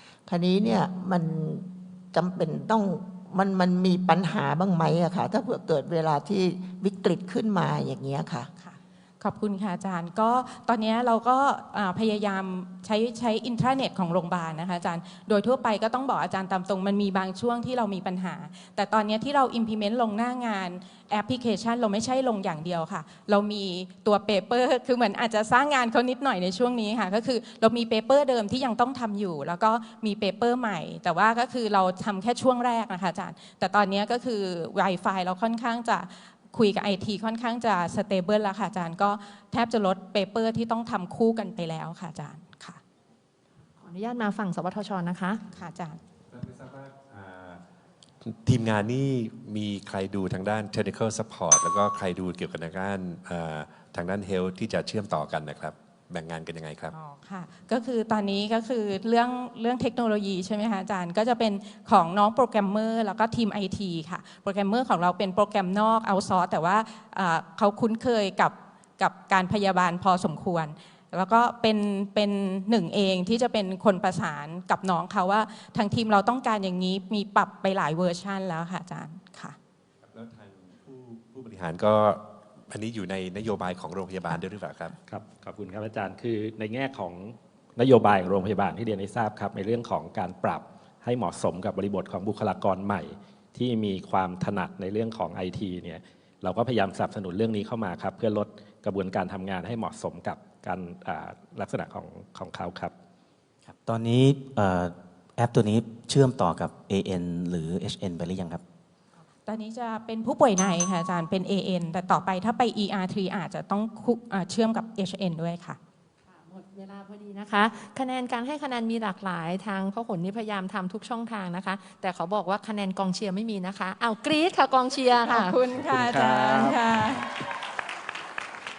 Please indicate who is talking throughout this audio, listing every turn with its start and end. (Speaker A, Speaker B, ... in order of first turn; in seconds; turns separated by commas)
Speaker A: 0.2-8.5, Speaker B: 8.6-42.8, Speaker C: 43.8-45.4, Speaker B: 45.5-46.0, Speaker D: 46.3-47.6, Speaker D: 48.2-56.9, Speaker B: 56.9-79.5, Speaker D: 80.0-84.9, Speaker E: 85.0-102.9, Speaker F: 103.7-108.6, Speaker B: 109.4-115.8, Speaker C: 116.5-125.6, Speaker B: 125.2-127.3